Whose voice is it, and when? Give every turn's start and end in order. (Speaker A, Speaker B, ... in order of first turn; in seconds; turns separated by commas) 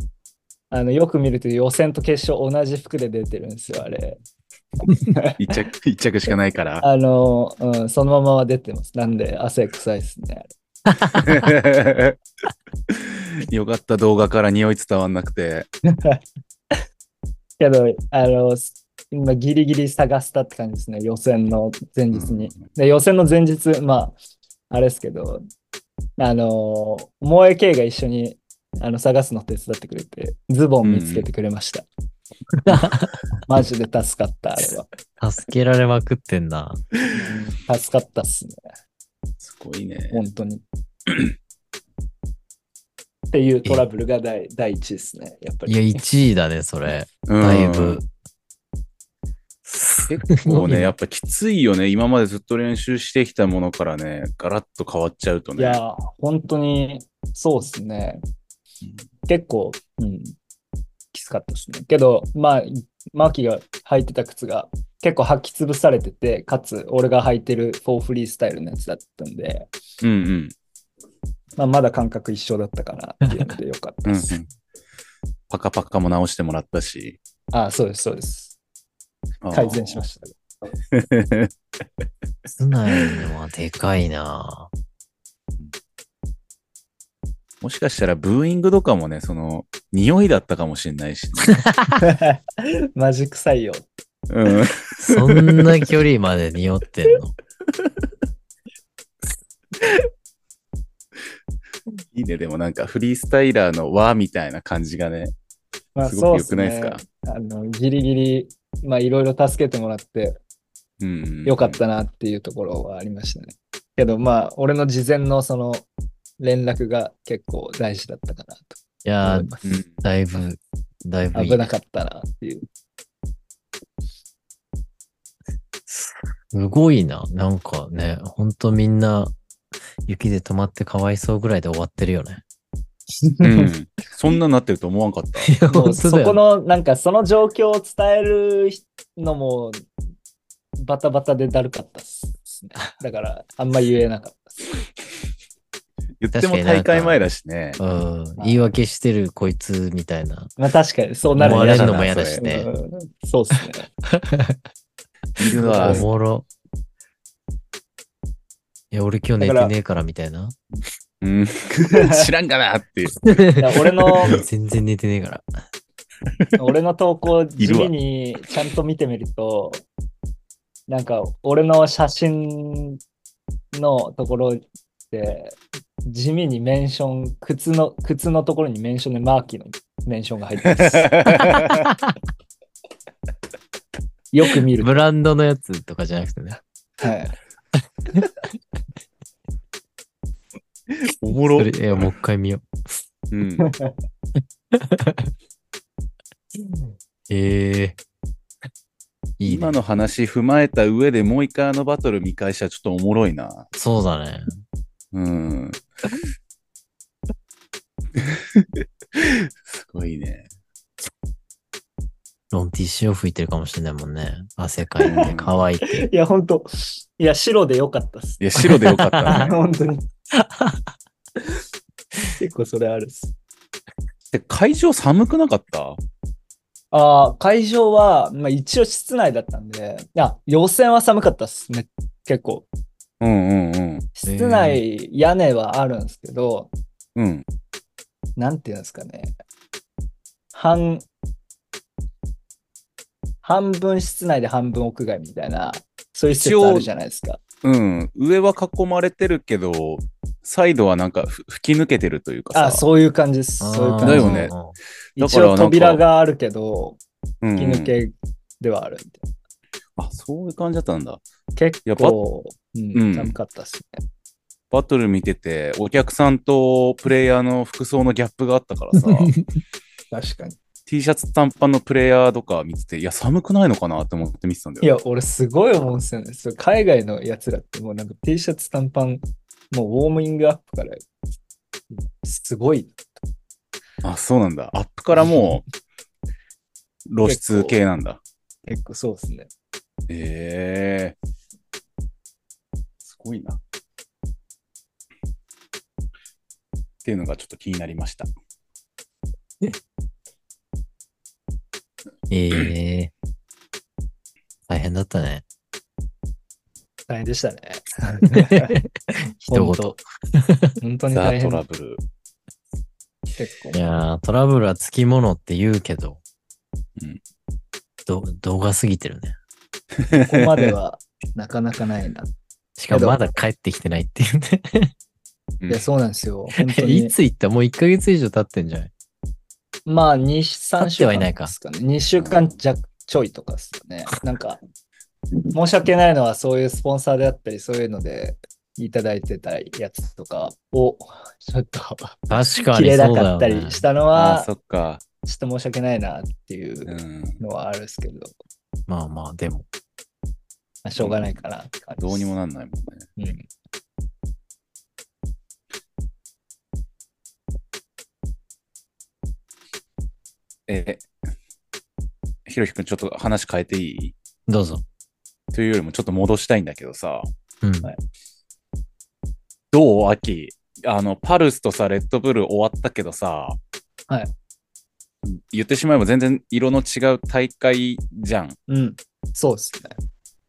Speaker A: 0.7-4.2, Speaker A: 5.0-5.6, Speaker B: 5.4-6.8, Speaker A: 6.8-10.5, Speaker B: 11.1-12.2, Speaker B: 12.9-15.7, Speaker A: 15.9-16.2, Speaker A: 17.6-24.2, Speaker B: 22.1-22.6, Speaker A: 24.7-25.4, Speaker A: 26.2-31.9, Speaker B: 30.8-31.3, Speaker C: 32.6-33.1, Speaker A: 33.5-34.9, Speaker C: 35.2-36.8, Speaker A: 37.1-38.6, Speaker B: 39.4-40.2, Speaker A: 40.1-40.6, Speaker B: 41.1-41.3, Speaker A: 43.3-45.8, Speaker C: 45.7-48.0, Speaker B: 47.3-48.0, Speaker C: 49.6-50.9, Speaker B: 50.1-55.8, Speaker A: 55.6-58.2, Speaker A: 59.3-60.4, Speaker A: 61.1-69.7, Speaker B: 70.0-70.5, Speaker A: 71.6-74.3, Speaker B: 74.0-74.5, Speaker B: 75.5-77.2, Speaker A: 77.5-78.5, Speaker B: 79.4-80.0, Speaker A: 79.5-80.3, Speaker B: 80.9-81.5, Speaker C: 82.5-84.7, Speaker B: 87.6-91.6, Speaker C: 91.7-92.0, Speaker A: 92.0-93.9, Speaker B: 94.3-95.7, Speaker C: 95.0-97.3, Speaker B: 102.1-105.3, Speaker A: 106.0-110.4, Speaker B: 106.0-107.0, Speaker B: 111.0-111.8, Speaker A: 111.5-115.9, Speaker A: 116.4-119.8, Speaker C: 119.0-121.7, Speaker B: 119.6-119.9, Speaker A: 121.3-122.7, Speaker C: 125.9-129.3, Speaker C: 130.1-132.4, Speaker A: 133.2-133.7, Speaker B: 133.4-135.5, Speaker C: 135.4-136.4, Speaker A: 135.7-139.9, Speaker A: 140.8-144.6, Speaker B: 146.2-147.8, Speaker C: 146.3-147.2, Speaker C: 147.8-150.5, Speaker A: 148.4-148.7, Speaker A: 150.6-153.9, Speaker C: 151.4-152.7, Speaker B: 151.4-152.4, Speaker B: 155.4-156.1, Speaker A: 155.6-156.1, Speaker C: 155.8-156.5, Speaker C: 158.9-160.6, Speaker A: 159.4-159.7, Speaker B: 161.2-163.4, Speaker A: 161.9-162.3, Speaker C: 163.3-163.6, Speaker A: 163.6-164.3, Speaker C: 164.2-165.4, Speaker A: 166.6-169.8, Speaker B: 167.6-167.9, Speaker A: 170.9-173.0, Speaker A: 173.7-181.2, Speaker B: 180.7-181.8, Speaker C: 181.4-182.1, Speaker A: 184.3-185.0, Speaker C: 184.8-186.6, Speaker A: 187.0-187.3, Speaker B: 191.2-191.7, Speaker C: 191.6-192.7, Speaker B: 193.3-193.7, Speaker A: 193.6-193.9, Speaker C: 194.7-195.3, Speaker C: 196.6-198.0, Speaker C: 199.4-199.8, Speaker B: 199.5-203.7, Speaker C: 203.7-204.6, Speaker B: 205.1-205.8, Speaker B: 208.2-210.5, Speaker C: 212.5-215.9, Speaker B: 215.0-215.6, Speaker A: 215.9-218.6, Speaker B: 218.4-219.6, Speaker C: 218.6-219.3, Speaker A: 219.3-220.0, Speaker C: 220.4-220.8, Speaker A: 222.4-223.3, Speaker B: 224.3-226.0, Speaker A: 226.9-232.7, Speaker B: 233.2-234.1, Speaker A: 234.2-236.7, Speaker C: 234.3-234.8, Speaker B: 237.2-237.4, Speaker A: 238.4-239.3, Speaker A: 240.5-241.1, Speaker A: 243.4-247.4, Speaker B: 246.3-246.9, Speaker B: 247.6-252.9, Speaker A: 252.5-254.5, Speaker C: 253.6-254.8, Speaker B: 254.0-254.5, Speaker B: 255.2-256.0, Speaker A: 255.2-257.0, Speaker B: 257.4-257.9, Speaker A: 257.6-259.3, Speaker B: 260.0-261.2, Speaker A: 261.6-264.0, Speaker B: 261.9-262.2, Speaker B: 262.9-263.4, Speaker B: 264.7-269.4, Speaker A: 270.1-270.6, Speaker B: 270.9-274.9, Speaker A: 274.8-281.1, Speaker A: 281.9-283.0, Speaker B: 284.0-285.6, Speaker A: 285.1-285.6, Speaker B: 287.1-288.2, Speaker A: 287.2-287.8, Speaker A: 288.7-289.5, Speaker B: 290.1-291.2, Speaker B: 293.0-293.6, Speaker B: 297.0-298.3, Speaker C: 302.3-303.1, Speaker C: 304.7-305.4, Speaker A: 307.1-308.8, Speaker C: 308.3-310.8, Speaker A: 309.5-310.0, Speaker A: 310.8-311.6, Speaker B: 311.1-312.0, Speaker A: 313.4-313.9, Speaker C: 313.7-316.2, Speaker C: 318.1-319.4, Speaker B: 320.0-320.7, Speaker A: 320.2-322.3, Speaker C: 322.8-324.9, Speaker A: 322.9-323.2, Speaker A: 325.7-327.1, Speaker C: 326.6-328.9, Speaker A: 329.9-334.6, Speaker C: 330.8-331.5, Speaker B: 332.2-332.4, Speaker A: 335.5-344.5, Speaker C: 342.3-343.9, Speaker B: 344.1-345.0, Speaker A: 345.2-348.3, Speaker B: 346.9-347.4, Speaker C: 348.9-349.6, Speaker A: 350.8-352.3, Speaker B: 351.0-351.4, Speaker B: 352.0-353.1, Speaker A: 353.2-353.5, Speaker B: 360.7-361.1, Speaker B: 362.5-364.1, Speaker C: 364.5-364.8, Speaker B: 365.5-367.3, Speaker C: 367.6-367.9, Speaker B: 369.7-373.6, Speaker B: 375.2-378.6, Speaker A: 378.7-380.0